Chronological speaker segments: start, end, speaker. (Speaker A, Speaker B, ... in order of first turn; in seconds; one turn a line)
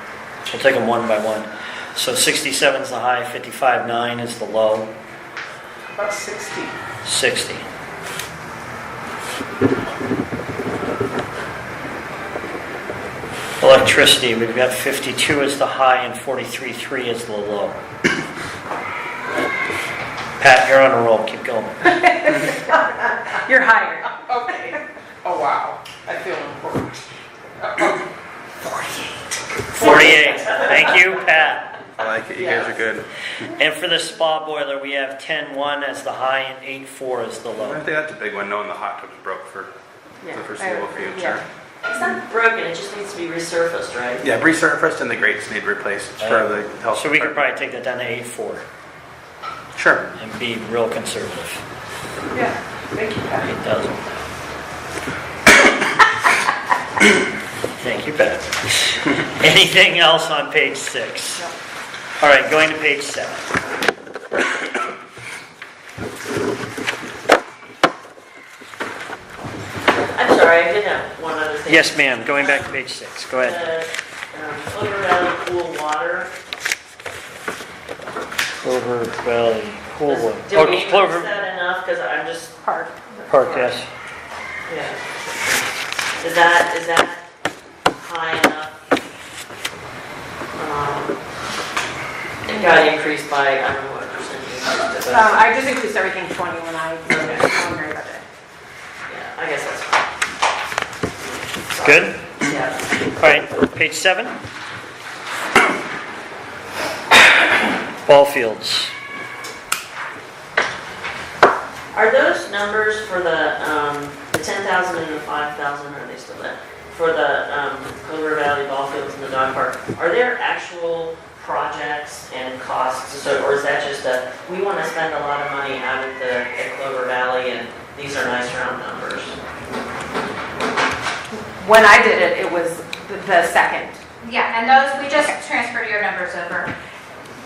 Speaker A: 0.5-4.9
Speaker B: 6.0-6.8
Speaker A: 7.0-7.7
Speaker A: 13.6-17.8
Speaker A: 20.4-22.0
Speaker C: 21.9-24.2
Speaker B: 24.1-27.1
Speaker B: 27.6-28.0
Speaker A: 29.8-31.7
Speaker B: 29.8-30.1
Speaker D: 32.0-33.1
Speaker E: 32.4-32.9
Speaker A: 33.6-37.9
Speaker D: 37.6-39.7
Speaker C: 40.2-41.4
Speaker D: 40.3-41.5
Speaker E: 41.9-44.3
Speaker D: 44.2-47.5
Speaker A: 46.2-48.7
Speaker A: 50.1-51.6
Speaker B: 52.4-53.5
Speaker A: 53.4-54.2
Speaker A: 57.8-61.5
Speaker A: 62.2-63.5
Speaker E: 70.1-72.7
Speaker A: 71.7-73.7
Speaker E: 73.3-76.3
Speaker A: 78.6-81.3
Speaker E: 80.1-82.6
Speaker C: 82.6-83.8
Speaker A: 83.3-83.9
Speaker E: 84.7-85.0
Speaker E: 86.2-87.3
Speaker E: 88.0-88.7
Speaker E: 90.6-91.2
Speaker E: 92.5-95.5
Speaker C: 95.1-98.2
Speaker E: 97.1-97.5
Speaker E: 99.1-100.1
Speaker E: 101.7-102.9
Speaker A: 101.8-102.2
Speaker A: 103.2-104.4
Speaker A: 108.0-108.9
Speaker E: 111.9-129.4
Speaker C: 131.3-134.0
Speaker F: 134.2-136.7